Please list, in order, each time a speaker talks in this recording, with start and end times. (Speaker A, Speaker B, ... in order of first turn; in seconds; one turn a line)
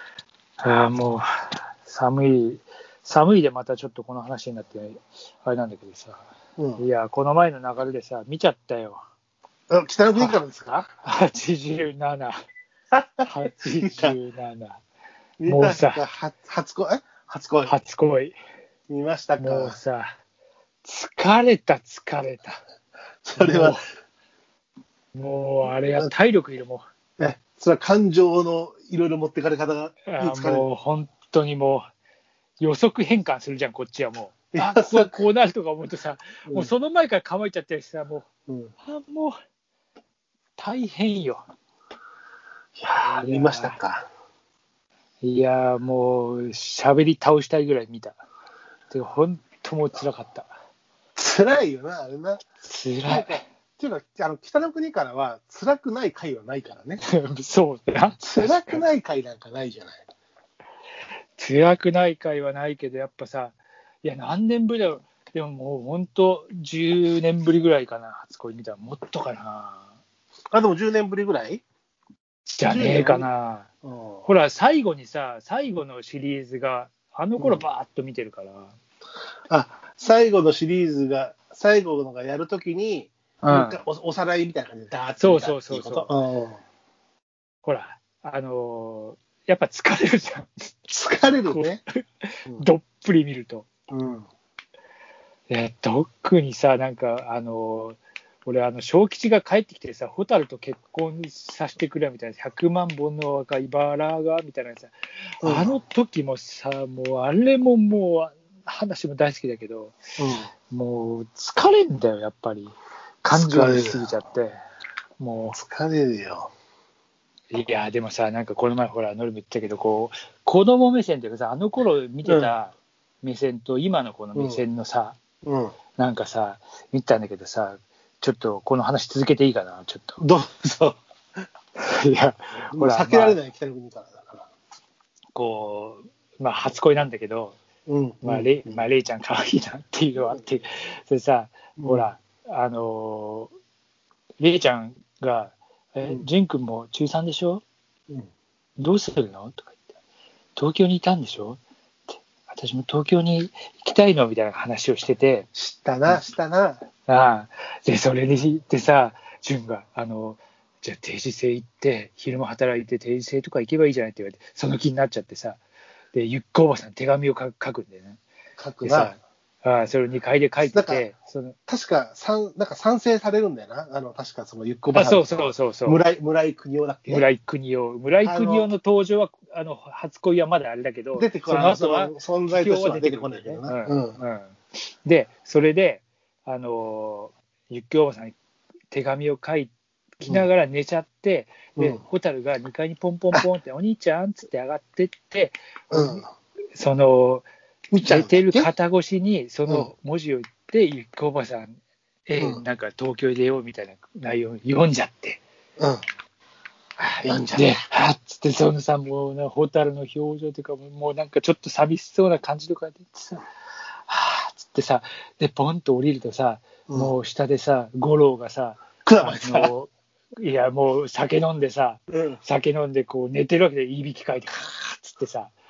Speaker A: 0.6-6.2
Speaker B: 6.6-6.8
Speaker A: 6.8-9.0
Speaker B: 9.7-10.9
Speaker A: 11.0-12.4
Speaker B: 12.9-13.3
Speaker A: 13.2-14.8
Speaker B: 13.8-14.2
Speaker B: 15.4-17.8
Speaker A: 15.4-16.0
Speaker A: 17.7-18.3
Speaker B: 18.9-19.8
Speaker A: 19.4-20.1
Speaker A: 20.8-22.6
Speaker B: 23.2-23.8
Speaker A: 23.4-23.8
Speaker A: 25.1-26.8
Speaker B: 27.2-30.7
Speaker A: 30.1-31.8
Speaker A: 32.6-38.3
Speaker B: 34.5-35.1
Speaker B: 38.5-38.7
Speaker A: 38.8-39.4
Speaker A: 40.6-41.4
Speaker B: 42.8-44.0
Speaker A: 43.0-43.8
Speaker A: 45.2-48.2
Speaker A: 48.9-50.5
Speaker B: 51.1-52.4
Speaker A: 52.6-53.4
Speaker B: 53.1-57.0
Speaker A: 57.1-58.8
Speaker B: 58.2-60.0
Speaker A: 61.4-69.9
Speaker B: 70.5-71.6
Speaker A: 72.5-73.7
Speaker B: 72.7-73.3
Speaker B: 73.8-74.2
Speaker A: 74.2-78.7
Speaker B: 79.5-86.6
Speaker A: 83.4-83.8
Speaker A: 85.2-86.1
Speaker A: 87.6-90.7
Speaker B: 90.9-91.8
Speaker A: 91.5-93.7
Speaker B: 93.9-94.3
Speaker A: 95.5-110.0
Speaker B: 105.4-105.8
Speaker B: 110.2-110.5
Speaker A: 110.7-112.7
Speaker A: 113.2-114.6
Speaker B: 113.3-114.1
Speaker A: 115.2-115.6
Speaker B: 115.5-116.5
Speaker A: 117.5-125.2
Speaker B: 122.2-122.5
Speaker B: 124.3-124.6
Speaker B: 125.4-125.7
Speaker A: 126.0-130.2
Speaker B: 130.2-131.0
Speaker A: 131.8-133.4
Speaker B: 132.7-134.5
Speaker A: 135.3-137.6
Speaker B: 137.8-138.8
Speaker A: 138.2-143.5
Speaker B: 141.8-142.1
Speaker A: 144.4-147.6
Speaker A: 148.8-149.8
Speaker A: 150.6-151.6
Speaker A: 152.2-155.5
Speaker B: 155.5-156.8
Speaker A: 157.1-165.6
Speaker A: 166.1-168.2
Speaker B: 168.6-169.1
Speaker A: 168.8-171.6
Speaker B: 170.7-171.1
Speaker B: 171.7-177.2
Speaker A: 174.9-176.0
Speaker A: 177.1-188.3
Speaker B: 178.2-178.7
Speaker B: 181.1-184.2
Speaker A: 188.9-197.4
Speaker B: 195.9-196.2
Speaker B: 197.9-198.7
Speaker A: 198.0-205.4
Speaker B: 207.0-207.7
Speaker A: 207.5-213.4
Speaker A: 214.1-225.5
Speaker B: 216.9-217.1
Speaker B: 219.0-219.7
Speaker B: 222.1-222.4